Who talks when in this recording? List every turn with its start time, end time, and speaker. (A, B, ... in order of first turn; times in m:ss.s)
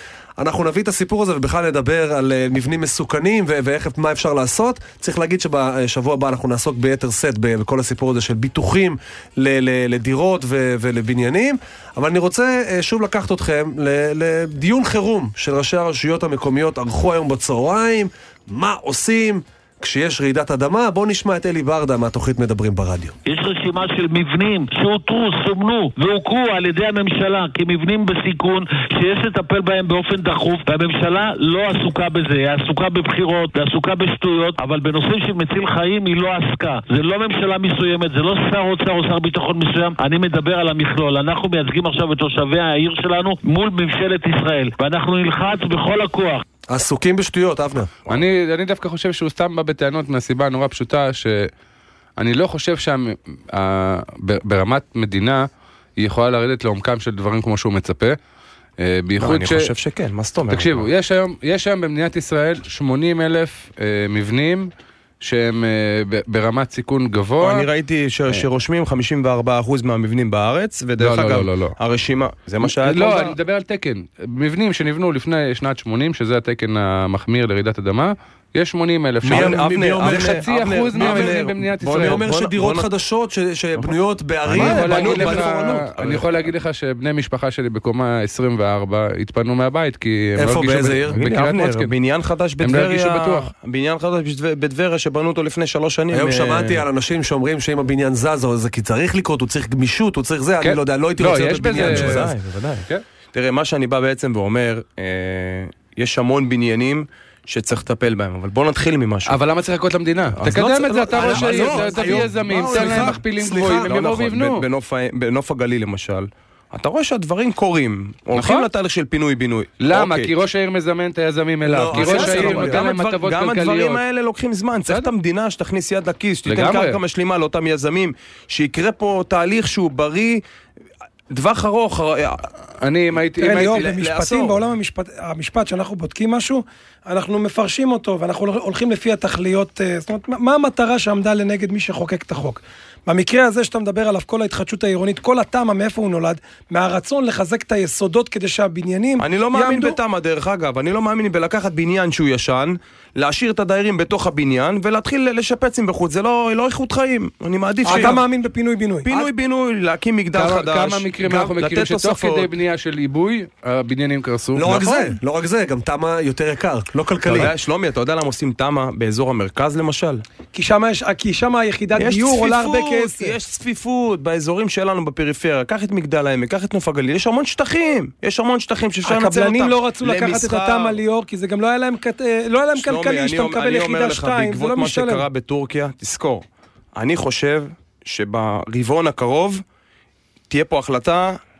0:00.4-0:23.1 A
0:23.2-0:46.4 B
0:46.7-0:47.9 A
0:48.1-0:51.5 C
0:52.2-0:58.2 C
0:58.8-0:59.7 C
0:59.2-1:00.9 D
1:00.5-1:07.7 C
1:07.4-1:13.3 D
1:11.0-1:11.8 C
1:12.6-1:22.2 C
1:19.2-1:25.9 A
1:19.2-1:22.9 D
1:24.5-1:26.5 D
1:24.5-1:31.9 C
1:30.4-1:31.2 A
1:31.2-1:36.8 D
1:32.6-1:33.5 C
1:36.1-1:42.3 A
1:40.6-1:42.3 C
1:41.7-1:49.3 D
1:49.2-1:54.6 C
1:50.4-1:53.2 D
1:51.0-1:54.0 A
1:53.7-2:00.3 D
1:58.3-1:58.7 C
1:59.8-2:04.0 C
2:01.6-2:02.9 A
2:01.9-2:10.4 D
2:06.4-2:07.0 C
2:11.3-2:12.5 D
2:12.8-2:13.8 C
2:13.4-2:30.0 E
2:13.4-2:14.6 D
2:29.2-2:38.2 D
2:37.8-2:39.1 E
2:39.0-2:42.5 D
2:40.3-2:44.8 C
2:44.5-2:47.5 A
2:47.2-2:50.2 D
2:50.5-2:53.3 E
2:52.0-3:01.0 D
2:59.0-3:05.2 E
3:02.8-3:06.4 D
3:07.0-3:09.6 D
3:10.5-3:11.4 D